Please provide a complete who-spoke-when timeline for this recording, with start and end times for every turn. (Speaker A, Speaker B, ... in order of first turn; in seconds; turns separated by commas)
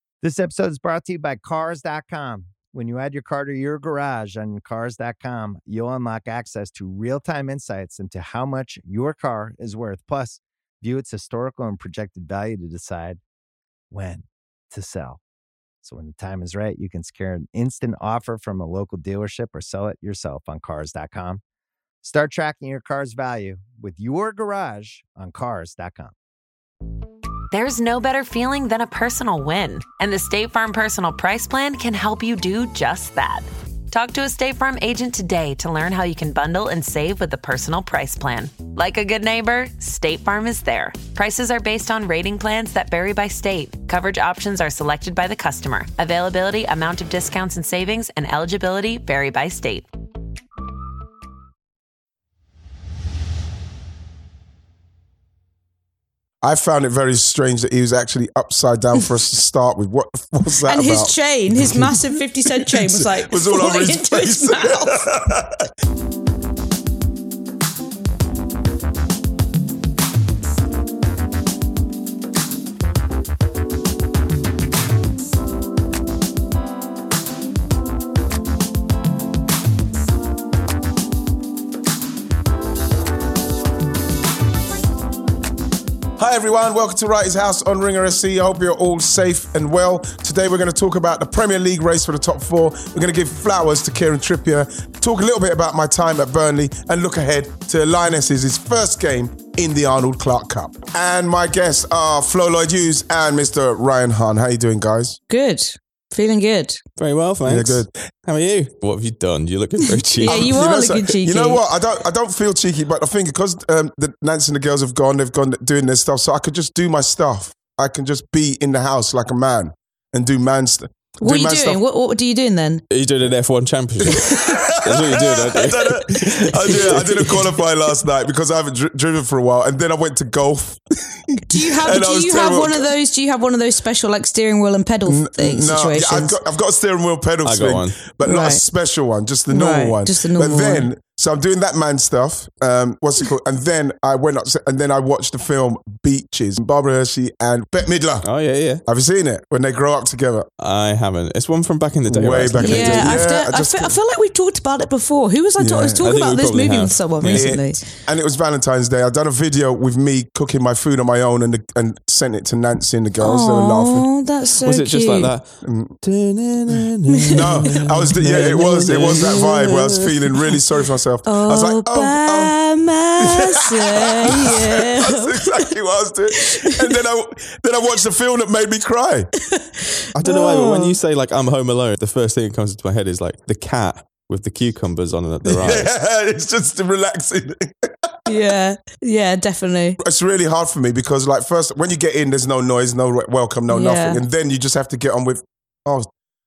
Speaker A: 0.2-13.2, Speaker A: 13.9-15.2, Speaker A: 15.8-21.4, Speaker A: 22.0-26.1, Speaker B: 27.5-49.9, Speaker C: 56.4-65.7, Speaker D: 60.7-65.0, Speaker C: 86.2-105.2, Speaker D: 105.3-106.8, Speaker E: 107.0-110.5, Speaker C: 107.4-108.0, Speaker D: 110.2-111.6, Speaker C: 110.2-121.8, Speaker D: 121.2-122.8, Speaker E: 122.9-127.4, Speaker C: 124.0-132.9, Speaker D: 131.5-136.3, Speaker C: 135.1-148.3, Speaker E: 137.4-138.0, Speaker D: 138.2-138.6, Speaker D: 139.5-140.9, Speaker E: 148.2-148.8, Speaker C: 148.8-150.5, Speaker E: 150.6-153.2, Speaker C: 152.1-153.9, Speaker D: 152.6-157.8, Speaker C: 155.6-156.0, Speaker E: 156.0-157.5, Speaker C: 157.2-164.1, Speaker D: 163.2-165.3, Speaker E: 164.6-170.1, Speaker C: 165.6-165.9, Speaker C: 167.3-172.6, Speaker D: 168.3-169.4, Speaker D: 171.2-175.7, Speaker C: 173.2-179.3, Speaker D: 176.4-176.9, Speaker D: 179.5-180.8, Speaker C: 180.1-180.8, Speaker E: 180.2-185.9, Speaker C: 185.4-188.1, Speaker D: 188.2-190.0, Speaker C: 190.0-196.1, Speaker D: 193.7-194.2